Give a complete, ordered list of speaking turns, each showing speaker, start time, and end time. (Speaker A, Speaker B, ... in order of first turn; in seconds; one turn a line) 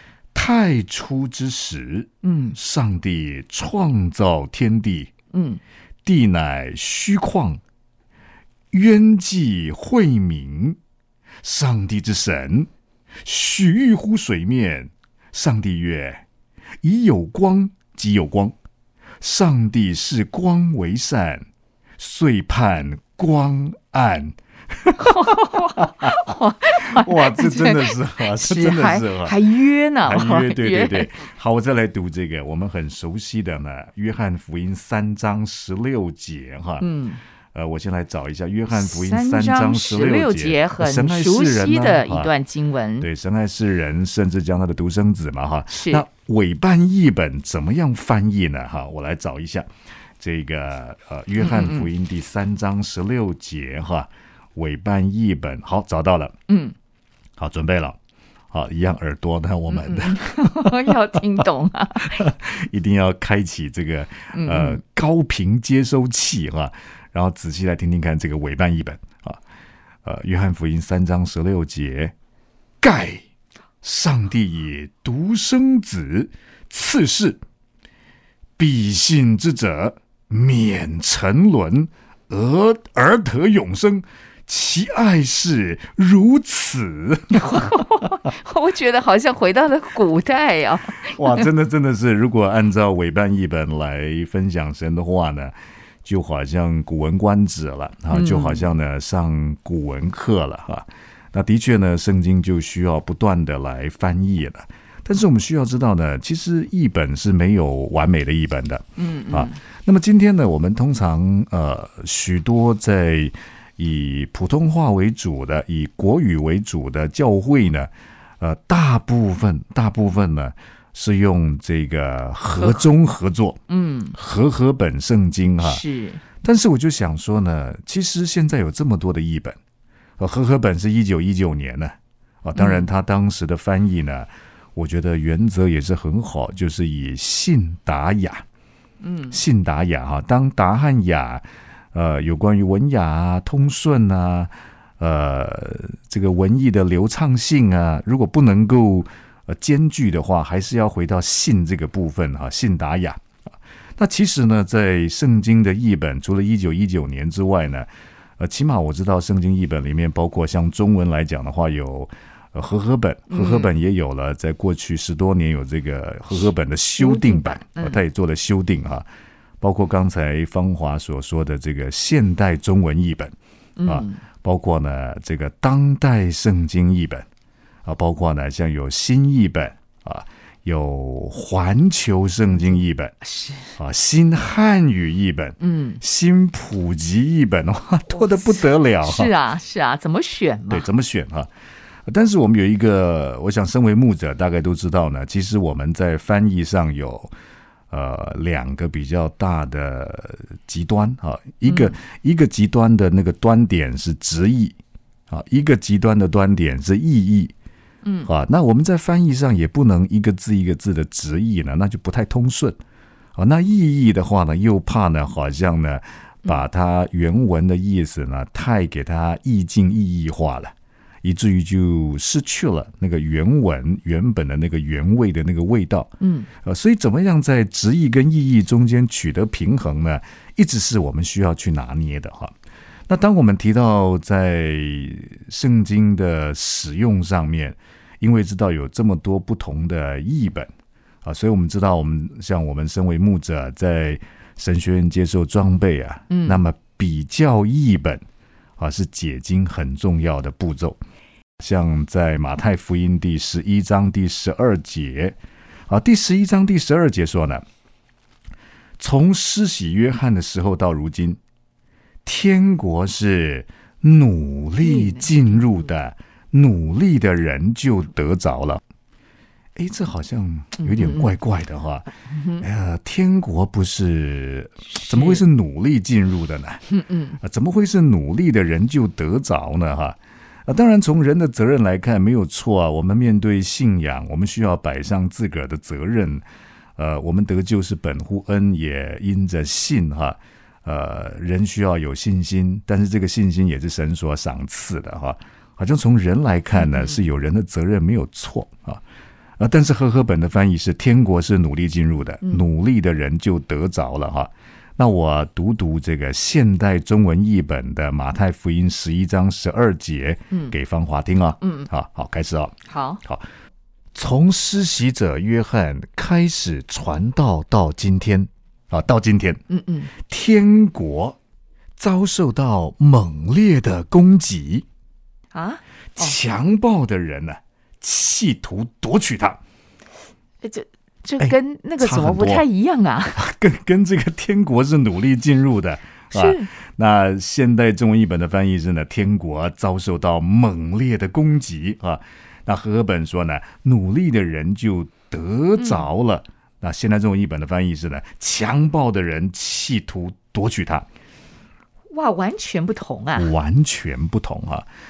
Speaker A: 0.3-5.1
Speaker B: 2.2-2.6
Speaker B: 5.3-5.6
Speaker A: 6.0-7.6
Speaker A: 8.7-10.8
Speaker A: 11.4-12.7
Speaker A: 13.2-16.2
Speaker A: 16.8-18.6
Speaker A: 19.2-21.4
Speaker A: 22.0-26.2
Speaker B: 25.0-31.2
Speaker A: 26.7-29.4
Speaker A: 30.0-36.9
Speaker B: 36.8-37.2
Speaker A: 37.5-42.3
Speaker B: 38.7-43.1
Speaker A: 43.0-49.7
Speaker B: 45.7-46.0
Speaker A: 50.2-56.3
Speaker B: 51.4-51.9
Speaker B: 56.5-56.7
Speaker A: 57.4-58.0
Speaker A: 58.5-60.9
Speaker B: 59.7-62.2
Speaker A: 62.0-69.4
Speaker B: 64.3-64.8
Speaker A: 70.0-72.1
Speaker A: 72.8-73.2
Speaker A: 73.8-77.4
Speaker A: 78.6-88.1
Speaker B: 87.3-91.5
Speaker A: 91.0-123.6
Speaker B: 98.1-98.7
Speaker B: 109.0-109.6
Speaker B: 123.7-124.2
Speaker A: 124.1-125.8
Speaker B: 125.6-126.2
Speaker A: 126.4-129.6
Speaker A: 130.2-138.4
Speaker B: 132.6-132.9
Speaker B: 139.0-139.4
Speaker A: 139.3-153.2
Speaker A: 154.0-157.9
Speaker A: 158.4-169.1
Speaker B: 163.3-163.7
Speaker B: 167.0-168.0
Speaker A: 169.6-177.3
Speaker B: 173.8-174.2
Speaker A: 177.8-183.2
Speaker B: 183.2-183.7
Speaker A: 183.8-189.3
Speaker B: 185.6-186.0
Speaker B: 188.1-190.9
Speaker A: 190.7-191.5
Speaker A: 192.1-197.3
Speaker A: 197.9-204.8
Speaker B: 201.7-202.0
Speaker A: 205.3-207.5
Speaker B: 208.0-208.3
Speaker A: 208.2-212.8
Speaker A: 213.4-232.6
Speaker B: 226.2-226.5
Speaker A: 233.1-240.7
Speaker A: 241.2-248.2
Speaker B: 246.3-246.6
Speaker A: 248.8-251.0
Speaker A: 251.6-257.6
Speaker A: 259.0-261.4
Speaker A: 262.2-268.8
Speaker B: 264.8-265.9
Speaker A: 269.8-276.9
Speaker B: 270.8-271.3
Speaker B: 272.3-272.6
Speaker B: 274.9-275.4
Speaker B: 276.9-277.4
Speaker A: 277.4-286.4
Speaker A: 287.0-299.0
Speaker B: 296.8-297.2
Speaker A: 299.6-313.5
Speaker B: 311.6-311.9
Speaker B: 312.9-313.2
Speaker A: 314.1-319.6
Speaker B: 319.7-320.1
Speaker A: 320.1-321.4
Speaker A: 322.0-324.9
Speaker B: 325.5-326.4
Speaker A: 326.2-329.6
Speaker B: 330.6-333.4
Speaker A: 331.4-332.7
Speaker A: 333.4-351.1
Speaker B: 336.3-336.7
Speaker B: 345.8-346.1
Speaker B: 352.1-353.5
Speaker A: 353.4-354.9